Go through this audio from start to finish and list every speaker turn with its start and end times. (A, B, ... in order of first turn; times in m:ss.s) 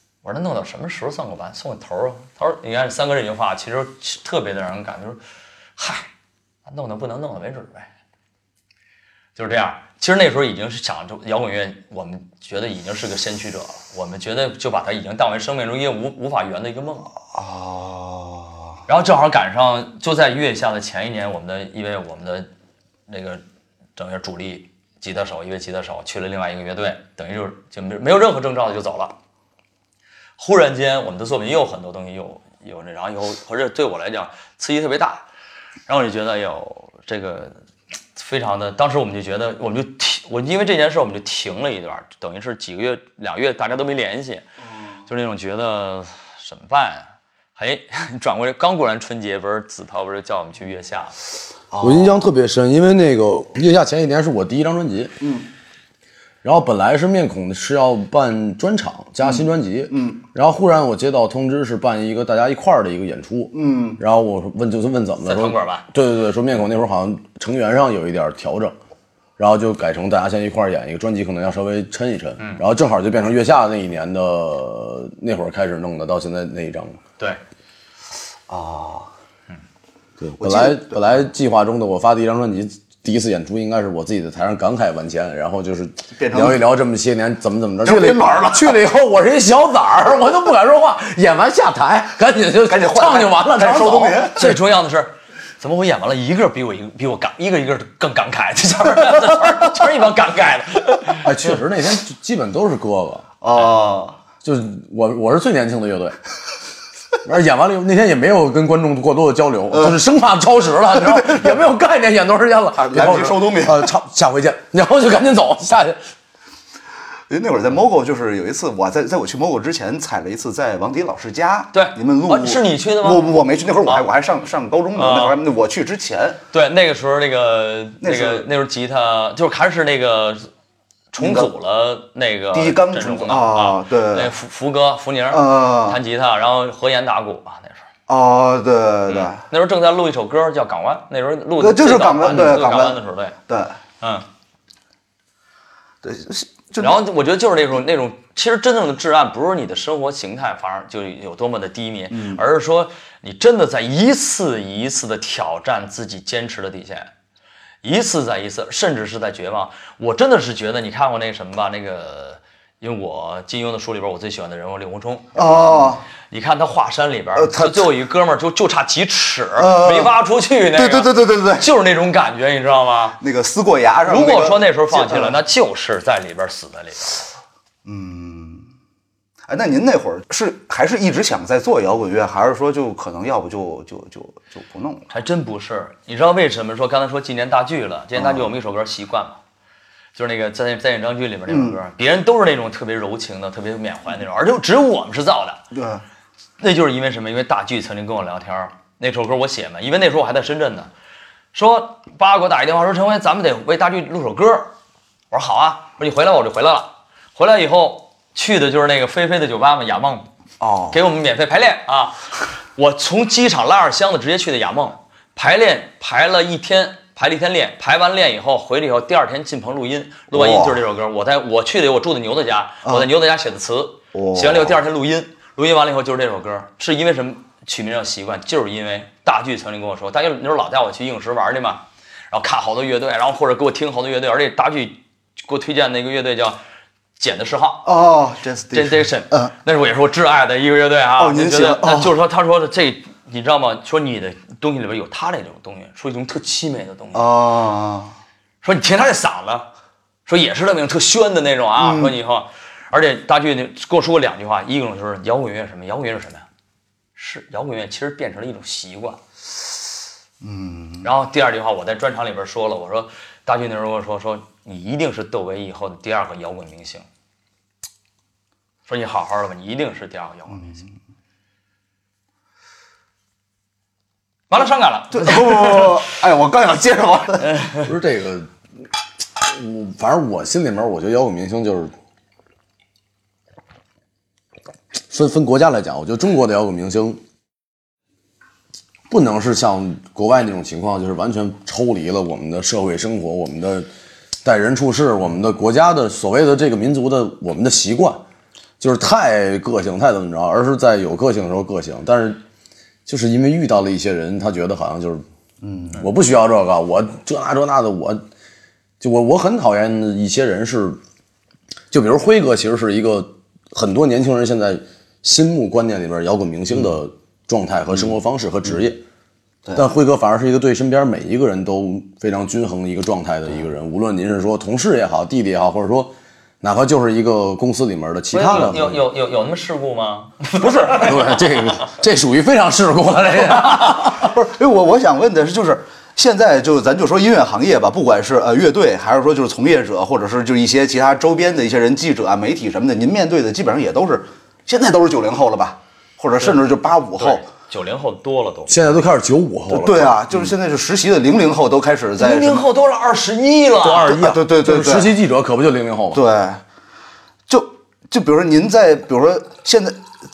0:00.2-0:05.2 A
0:05.8-0:06.1 A
0:06.7-0:07.9 A
0:09.4-0:17.1 A
0:17.3-0:18.6 B
0:18.9-0:22.5 A
0:23.1-0:23.4 A
0:24.0-0:29.1 A
0:30.4-0:35.2 A
0:35.9-0:37.6 A
0:38.2-0:44.4 A
0:45.1-0:51.2 A
0:51.7-0:52.2 B
0:51.8-0:55.1 C
0:55.2-0:55.5 B
0:56.4-1:08.8 C
0:59.2-1:00.2 B
1:03.5-1:04.0 B
1:05.2-1:05.9 A
1:09.4-1:17.0 C
1:18.5-1:19.1 B
1:20.2-1:34.6 C
1:20.4-1:21.1 B
1:26.2-1:26.6 B
1:27.8-1:28.8 B
1:32.7-1:34.5 B
1:34.4-1:41.3 A
1:41.2-1:43.3 C
1:43.4-1:44.2 B
1:44.4-1:46.2 C
1:47.2-1:56.0 C
1:49.7-1:50.0 B
1:50.9-1:51.7 B
1:52.8-1:53.9 B
1:57.3-2:06.4 B
2:01.7-2:04.1 A
2:05.0-2:05.4 A
2:06.5-2:10.5 A
2:08.0-2:08.5 B
2:11.1-2:17.9 A
2:11.2-2:11.5 B
2:12.5-2:14.3 B
2:15.3-2:16.0 B
2:18.1-2:19.4 B
2:19.1-2:23.4 A
2:21.6-2:23.8 B
2:24.0-2:24.3 A
2:26.0-2:27.0 B
2:26.8-2:37.1 A
2:32.1-2:32.4 B
2:37.8-2:53.2 A
2:45.4-2:46.0 B
2:47.4-2:47.9 B
2:49.6-2:50.2 B
2:50.7-2:51.7 B
2:53.2-2:55.4 B
2:54.1-2:57.2 A
2:57.8-2:58.7 B
2:59.5-3:05.1 B
3:05.1-3:09.4 A
3:08.2-3:08.5 B
3:10.2-3:15.6 A
3:11.5-3:11.8 B
3:15.7-3:16.0 B
3:16.6-3:20.9 A
3:21.5-3:24.7 A
3:25.3-3:30.3 A
3:30.6-3:31.0 B
3:30.9-3:56.6 A
3:40.3-3:40.8 B
3:44.1-3:44.8 B
3:57.2-3:57.9 A
3:57.8-3:59.5 B
3:58.7-4:07.3 A
4:01.2-4:02.2 B
4:07.1-4:08.2 B
4:08.6-4:09.7 A
4:10.3-4:16.4 A
4:11.8-4:12.1 B
4:17.2-4:19.2 A
4:20.4-4:21.1 B
4:21.0-4:27.1 A
4:28.9-4:30.9 A
4:34.5-4:36.0 A
4:35.1-4:37.6 B
4:37.5-4:37.8 A
4:37.8-4:38.5 C
4:39.4-4:41.9 C
4:45.1-4:47.2 C
4:49.1-4:53.9 C
4:54.4-4:58.2 C
4:58.8-5:02.4 C
5:03.1-5:05.2 C
5:05.6-5:06.0 B
5:06.0-5:08.2 C
5:09.0-5:11.0 C
5:11.9-5:19.0 C
5:19.8-5:29.0 C
5:28.3-5:31.4 A
5:30.6-5:31.2 B
5:30.9-5:34.3 C
5:33.5-5:47.4 B
5:47.2-5:49.0 A
5:48.7-5:50.2 C
5:49.7-5:52.6 B
5:52.2-5:54.2 A
5:53.8-5:56.2 C
5:54.0-5:55.1 B
5:56.1-5:56.6 B
5:57.5-6:00.0 B